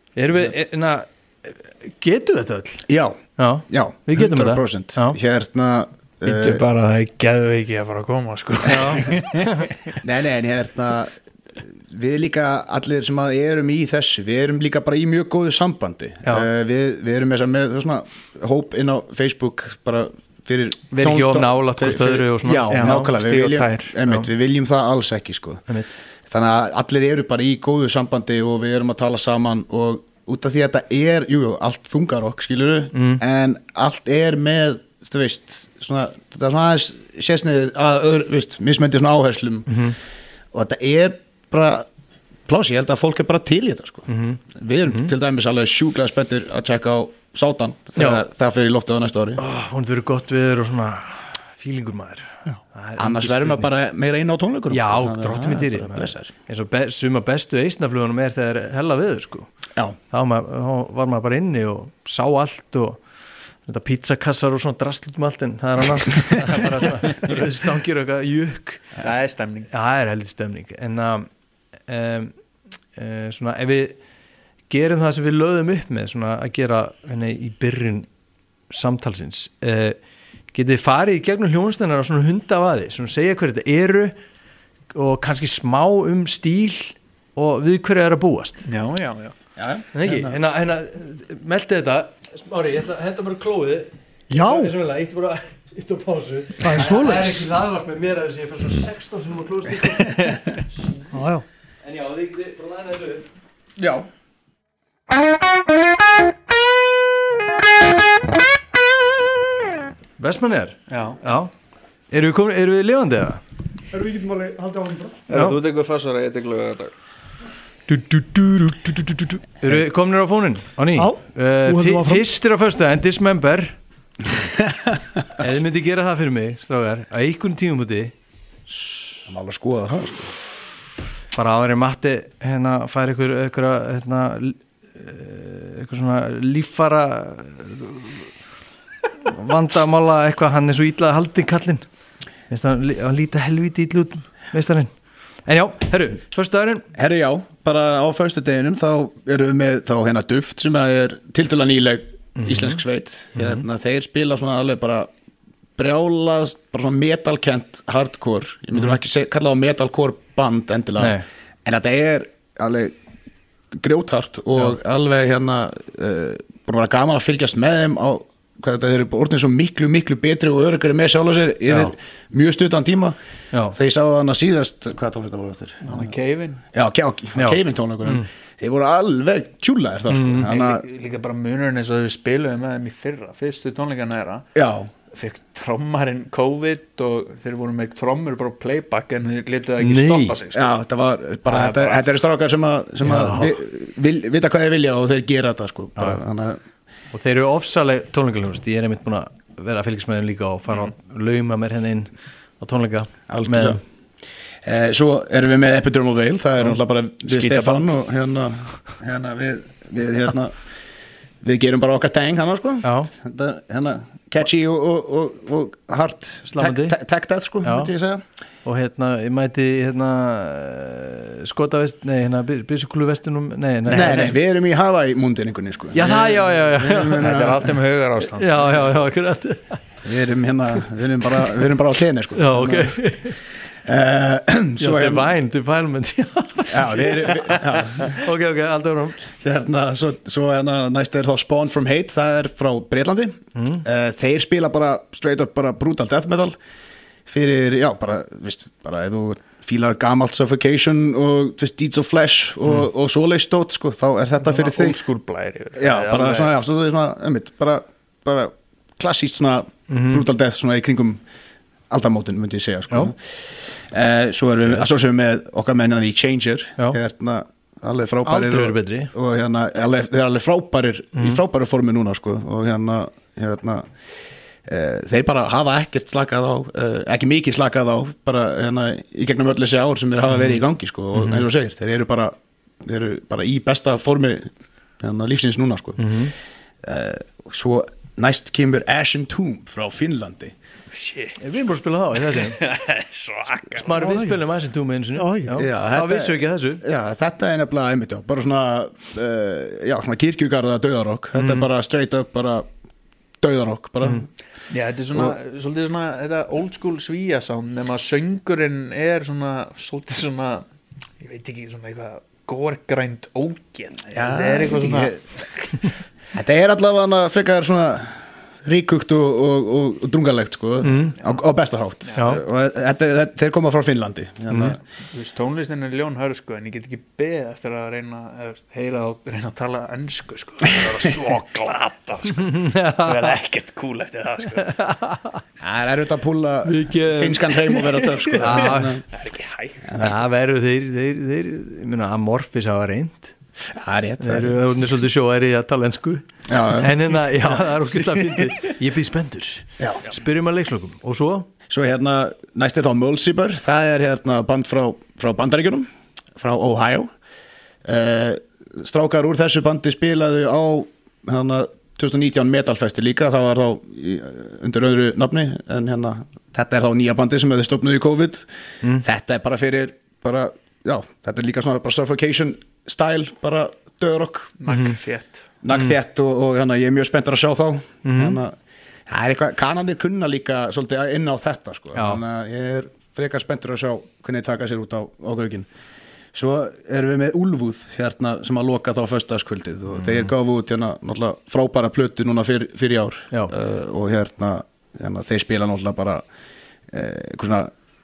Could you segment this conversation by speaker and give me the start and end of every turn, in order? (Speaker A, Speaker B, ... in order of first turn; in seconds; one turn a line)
Speaker A: 0.1-2.8
Speaker B: 2.9-6.6
Speaker A: 3.4-5.2
Speaker C: 6.2-9.9
Speaker A: 8.6-9.7
Speaker B: 10.0-25.7
Speaker A: 20.9-23.0
Speaker C: 22.7-24.3
Speaker A: 25.7-26.0
Speaker B: 26.2-39.8
Speaker A: 32.9-33.2
Speaker A: 39.7-40.0
Speaker B: 40.5-41.9
Speaker B: 42.5-49.4
Speaker A: 44.1-45.1
Speaker A: 48.0-48.2
Speaker A: 49.4-53.7
Speaker B: 53.0-56.3
Speaker A: 54.7-59.5
Speaker A: 60.1-63.0
Speaker A: 63.6-69.0
Speaker C: 69.0-69.7
Speaker A: 69.7-71.3
Speaker A: 71.8-72.3
Speaker A: 72.9-74.0
Speaker A: 74.7-78.1
Speaker A: 78.7-80.0
Speaker A: 80.5-84.1
Speaker A: 84.9-88.6
Speaker C: 88.7-89.3
Speaker B: 89.6-90.4
Speaker A: 89.9-100.4
Speaker D: 94.3-94.7
Speaker D: 96.6-97.5
Speaker D: 101.1-101.4
Speaker A: 101.8-103.2
Speaker B: 103.8-104.0
Speaker A: 110.2-111.5
Speaker C: 110.9-111.2
Speaker A: 112.1-113.4
Speaker D: 113.9-115.2
Speaker C: 115.3-116.9
Speaker A: 115.3-115.6
Speaker A: 117.9-123.8
Speaker D: 121.0-122.2
Speaker B: 124.5-125.2
Speaker A: 125.4-128.1
Speaker B: 129.2-130.4
Speaker A: 131.3-138.3
Speaker A: 139.2-141.8
Speaker A: 142.5-144.9
Speaker A: 145.4-146.8
Speaker B: 146.9-155.1
Speaker A: 152.3-152.8
Speaker A: 153.3-153.6
Speaker B: 155.8-162.9
Speaker A: 161.0-161.2
Speaker B: 163.7-173.1
Speaker B: 173.7-176.1
Speaker C: 175.8-176.6
Speaker B: 176.7-180.8
Speaker A: 177.4-178.3
Speaker A: 180.1-180.5
Speaker C: 180.5-184.4
Speaker B: 184.5-184.9
Speaker C: 185.1-190.6
Speaker A: 189.8-190.3
Speaker B: 190.5-196.6
Speaker C: 191.4-192.1
Speaker A: 193.0-193.5
Speaker A: 197.1-203.8
Speaker B: 203.3-203.8
Speaker B: 204.6-210.6
Speaker C: 207.3-207.9
Speaker B: 211.4-218.2
Speaker A: 212.8-213.1
Speaker A: 216.5-216.9
Speaker A: 217.6-217.9
Speaker A: 218.6-224.4
Speaker C: 223.9-224.3
Speaker B: 223.9-227.7
Speaker A: 225.9-227.5
Speaker C: 227.2-228.9
Speaker A: 228.4-229.8
Speaker B: 230.0-235.3
Speaker A: 232.3-233.4
Speaker A: 234.8-239.2
Speaker B: 236.7-238.2
Speaker B: 239.3-246.6
Speaker A: 243.6-243.8
Speaker B: 247.3-255.0
Speaker C: 254.4-256.5
Speaker B: 255.8-261.2
Speaker A: 259.9-260.2
Speaker B: 261.9-273.9
Speaker A: 268.2-269.1
Speaker B: 274.6-284.4
Speaker A: 280.3-280.6
Speaker A: 281.1-281.4
Speaker B: 285.0-286.3
Speaker A: 286.0-286.3
Speaker B: 286.8-290.5
Speaker C: 290.9-291.5
Speaker A: 291.4-292.6
Speaker C: 292.3-294.0
Speaker A: 293.8-296.8
Speaker D: 294.0-294.4
Speaker D: 295.1-295.6
Speaker B: 295.6-302.6
Speaker A: 301.4-301.7
Speaker B: 303.4-304.3
Speaker C: 304.7-310.6
Speaker C: 311.2-315.9
Speaker B: 314.1-315.2
Speaker B: 316.3-324.8
Speaker A: 320.8-321.1
Speaker C: 322.0-322.4
Speaker A: 322.1-322.4
Speaker A: 324.5-324.8
Speaker C: 325.1-334.7
Speaker B: 330.7-331.1
Speaker A: 332.4-333.3
Speaker A: 334.6-335.4
Speaker B: 335.6-339.0
Speaker A: 336.6-337.8
Speaker C: 338.2-339.9
Speaker A: 338.3-339.0
Speaker B: 339.8-340.2
Speaker A: 340.0-343.3
Speaker B: 343.6-344.6
Speaker A: 344.2-351.5
Speaker B: 346.5-346.9
Speaker B: 351.7-357.1
Speaker B: 357.8-374.5
Speaker C: 374.6-375.4
Speaker A: 374.7-374.9
Speaker B: 375.6-385.7
Speaker A: 378.0-378.4
Speaker A: 381.9-382.2
Speaker B: 386.3-396.2
Speaker A: 390.0-390.3
Speaker B: 396.9-397.7